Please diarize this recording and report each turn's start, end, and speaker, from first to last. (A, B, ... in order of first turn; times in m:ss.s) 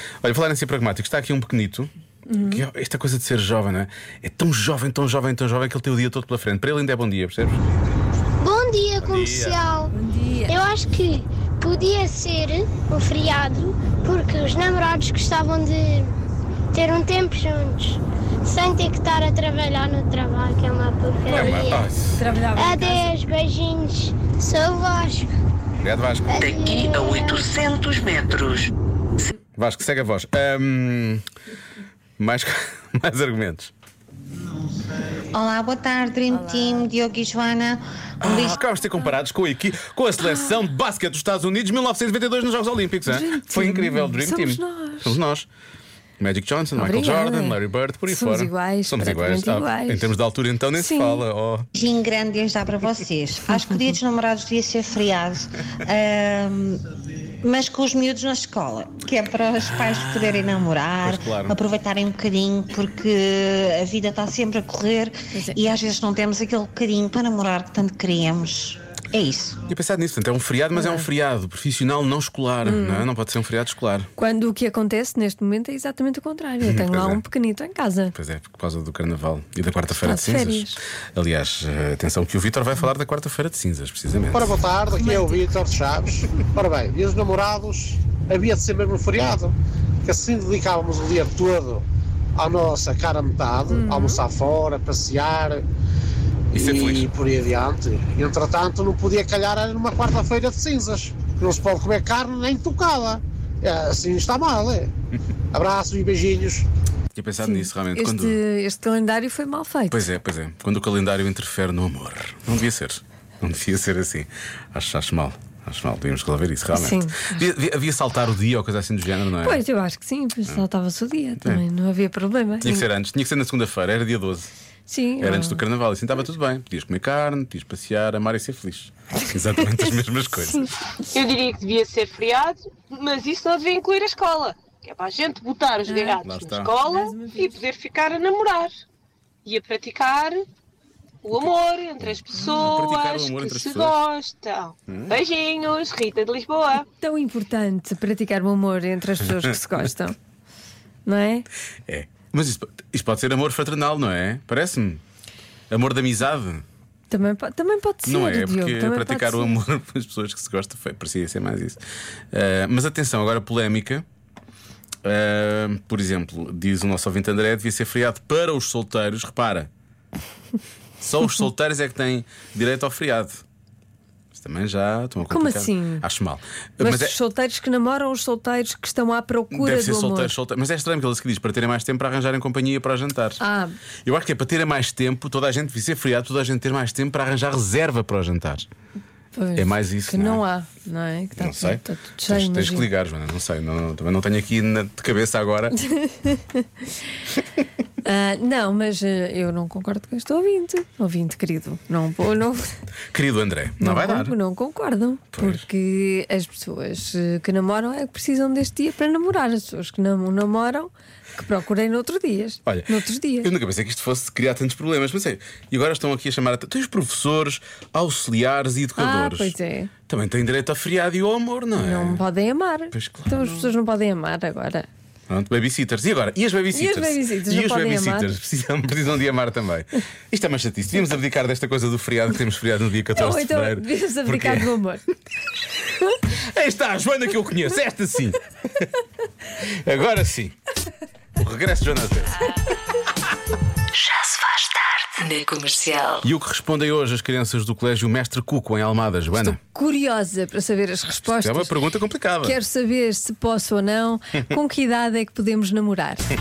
0:00.2-0:07.8 A
0:02.3-0:02.6 B
0:08.4-0:09.9 C
0:09.0-0:09.6 A
0:09.9-0:10.6 B
0:10.5-0:16.1 C
0:16.7-0:21.8 C
0:21.3-0:22.2 A
0:22.2-0:23.1 B
0:22.5-0:25.3 C
0:25.8-0:26.4 A
0:26.3-0:27.5 C
0:26.6-0:28.6 D
0:29.6-0:31.2 A
0:32.2-0:33.7 A
0:35.3-0:38.6 E
0:38.2-0:45.5 A
0:43.1-0:45.2 B
0:46.2-0:51.7 A
0:46.8-0:50.1 B
0:50.8-0:51.2 B
0:51.8-0:56.8 E
0:57.4-1:09.6 E
1:01.0-1:01.6 A
1:05.3-1:05.6 B
1:09.7-1:14.1 A
1:10.7-1:11.1 B
1:12.6-1:13.1 B
1:14.2-1:18.2 B
1:16.6-1:17.2 A
1:18.1-1:24.5 A
1:20.0-1:20.8 B
1:24.3-1:31.8 F
1:24.9-1:25.5 B
1:32.4-1:35.6 F
1:33.7-1:34.2 B
1:36.5-1:44.9 F
1:36.5-1:37.1 A
1:45.5-1:46.7 F
1:47.2-1:48.4 A
1:47.4-1:50.1 B
1:49.9-1:59.6 A
1:56.7-1:57.4 B
1:59.4-2:02.9 B
2:02.6-2:04.5 A
2:04.9-2:05.6 B
2:05.2-2:10.7 A
2:09.6-2:10.7 B
2:11.2-2:17.0 G
2:11.5-2:12.5 E
2:13.0-2:16.2 E
2:15.9-2:16.2 B
2:16.2-2:16.8 A
2:16.7-2:17.6 B
2:17.6-2:18.7 G
2:19.5-2:20.4 G
2:19.5-2:20.2 E
2:21.2-2:26.8 G
2:22.0-2:24.0 A
2:24.9-2:25.2 A
2:27.0-2:30.2 B
2:31.1-2:31.5 B
2:31.9-2:35.0 A
2:35.7-2:36.6 A
2:37.1-2:39.6 B
2:38.1-2:41.8 A
2:42.3-2:44.0 A
2:45.0-2:49.7 A
2:51.0-2:53.4 A
2:54.3-2:57.2 A
2:55.3-2:56.0 B
2:56.8-3:00.3 B
2:59.5-3:03.4 A
3:03.4-3:03.7 B
3:04.0-3:08.7 A
3:09.4-3:12.9 B
3:09.6-3:10.4 A
3:11.4-3:15.8 A
3:15.9-3:16.6 B
3:18.0-3:22.7 B
3:23.1-3:24.4 A
3:23.8-3:33.5 B
3:25.3-3:25.7 A
3:32.6-3:39.5 A
3:39.0-3:39.9 B
3:40.1-3:42.2 A
3:41.8-3:44.9 B
3:42.9-3:43.7 A
3:45.3-3:54.7 A
3:46.7-3:48.4 B
3:53.2-3:55.0 B
3:56.3-3:58.9 A
3:59.6-4:00.6 A
4:01.4-4:02.4 A
4:03.9-4:06.3 H
4:06.2-4:09.6 A
4:09.3-4:11.7 B
4:11.2-4:12.6 A
4:12.4-4:16.2 B